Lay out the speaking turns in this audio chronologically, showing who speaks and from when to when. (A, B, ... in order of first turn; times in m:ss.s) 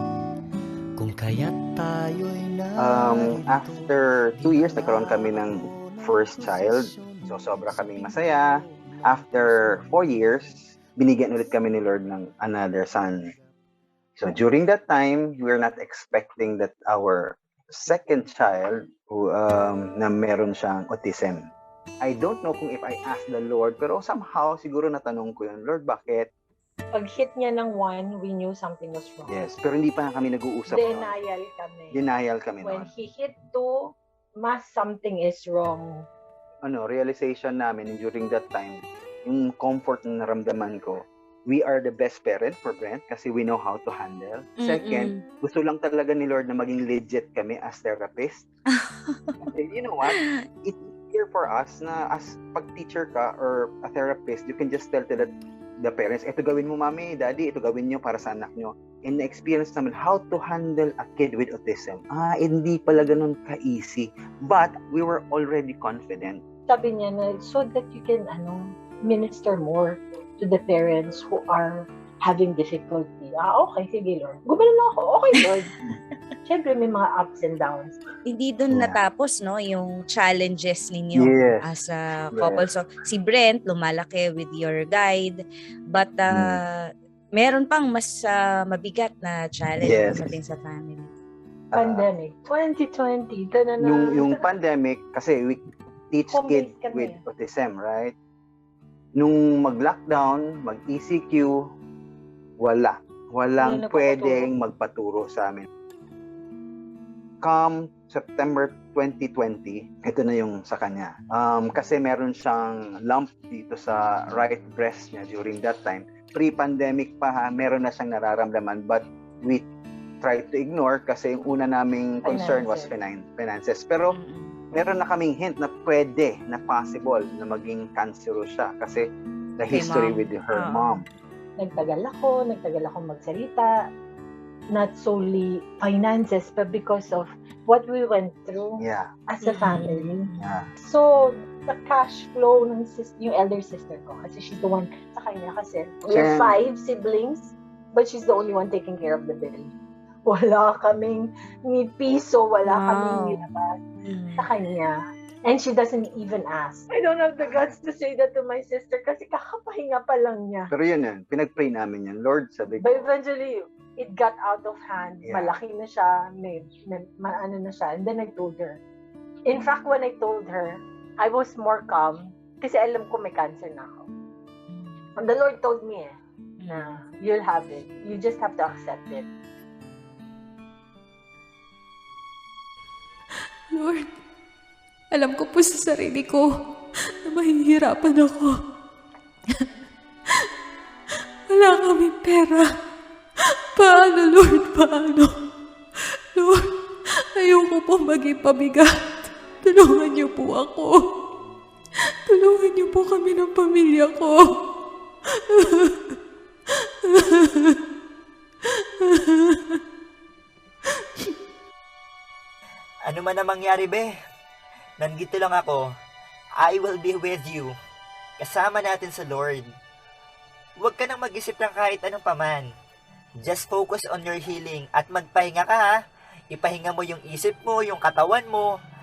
0:01.0-0:10.5 A
0:02.8-0:13.3 B
0:14.2-0:21.5 B
0:22.0-0:26.3 B
0:26.9-0:29.4 C
0:29.3-0:31.1 B
0:30.7-0:32.0 C
0:31.9-0:32.9 B
0:32.6-0:33.9 C
0:34.4-0:36.0 C
0:36.6-0:48.4 B
0:44.6-0:45.2 D
0:48.7-0:49.5 D
0:49.5-1:06.4 B
0:50.1-0:50.4 D
1:06.7-1:15.7 C
1:16.4-1:18.0 C
1:18.3-1:25.4 D
1:18.7-1:19.0 B
1:21.2-1:21.6 B
1:22.3-1:22.6 B
1:25.9-1:31.1 D
1:26.3-1:26.6 B
1:29.8-1:30.3 B
1:31.7-1:32.1 B
1:31.7-1:34.4 C
1:33.8-1:38.1 B
1:36.3-1:37.2 C
1:39.2-1:41.6 B
1:42.6-1:45.7 B
1:43.6-1:44.5 C
1:47.4-1:59.6 B
2:00.2-2:04.2 B
2:02.2-2:02.9 C
2:04.1-2:04.6 D
2:04.7-2:09.0 B
2:09.6-2:11.0 B
2:09.7-2:11.0 D
2:11.6-2:13.7 C
2:14.7-2:29.7 C
2:18.8-2:19.1 B
2:19.4-2:20.0 D
2:20.4-2:20.7 B
2:26.1-2:26.6 B
2:30.3-2:33.8 C
2:32.7-2:33.4 D
2:34.0-2:34.5 D
2:34.4-2:40.7 C
2:37.4-2:37.7 B
2:40.7-2:43.1 B
2:42.8-2:48.8 C
2:45.2-2:45.6 B
2:49.5-2:54.1 C
2:54.7-2:55.1 D
2:55.2-2:56.2 C
2:56.6-2:57.0 D
2:56.7-2:59.3 C
3:03.8-3:04.1 E
3:05.1-3:06.5 E
3:07.3-3:08.6 E
3:11.5-3:12.7 E
3:13.8-3:15.3 E
3:16.4-3:16.7 E
3:17.4-3:21.1 E
3:22.3-3:24.5 E
3:25.5-3:26.0 E
3:27.1-3:27.8 E
3:29.1-3:29.8 E
3:33.1-3:34.1 F
3:35.0-3:35.8 F
3:36.6-3:37.7 F
3:38.4-3:39.7 F
3:40.8-3:42.7 F
3:43.4-3:45.9 F
3:46.5-3:48.7 F